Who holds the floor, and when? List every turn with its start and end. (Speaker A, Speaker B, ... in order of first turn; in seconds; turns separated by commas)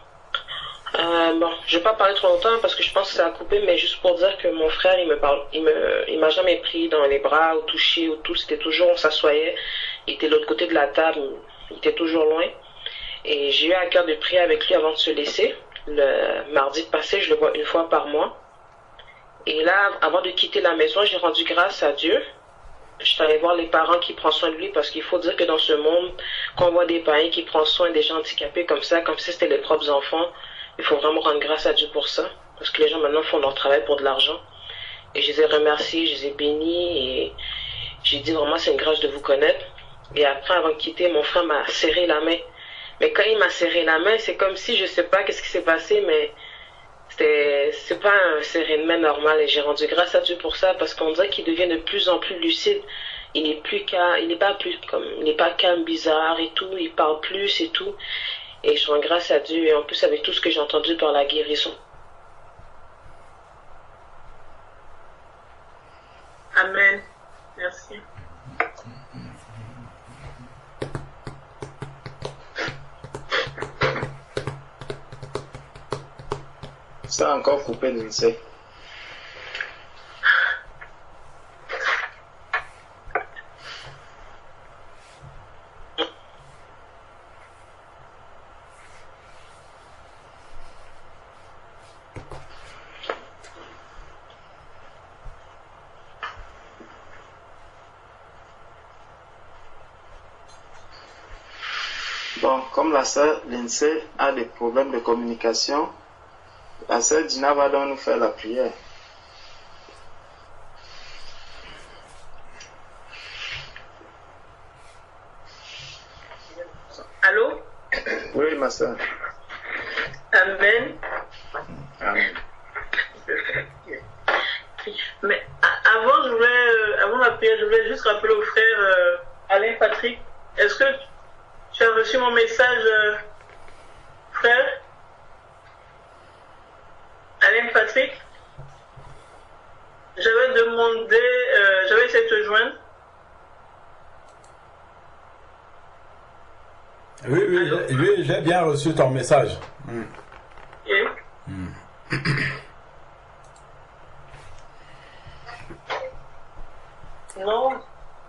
Speaker A: 0.9-12.5, Speaker A: 13.2-18.4, Speaker A: 19.5-22.2, Speaker A: 23.0-34.4, Speaker A: 35.1-37.3, Speaker A: 38.0-39.6, Speaker A: 40.1-42.5, Speaker A: 43.0-46.3, Speaker A: 47.1-58.0, Speaker A: 58.6-61.8, Speaker B: 66.5-67.0, Speaker B: 67.6-68.0, Speaker C: 77.1-78.4, Speaker C: 102.4-105.9, Speaker C: 106.9-108.8, Speaker B: 117.1-117.7, Speaker C: 118.3-119.0, Speaker B: 120.3-121.0, Speaker C: 122.0-122.4, Speaker B: 123.3-124.0, Speaker B: 124.8-131.0, Speaker B: 131.7-133.2, Speaker B: 134.3-134.8, Speaker B: 137.4-138.2, Speaker B: 140.2-142.8, Speaker D: 147.2-150.1, Speaker B: 147.6-147.8, Speaker B: 150.8-151.1, Speaker B: 157.3-157.8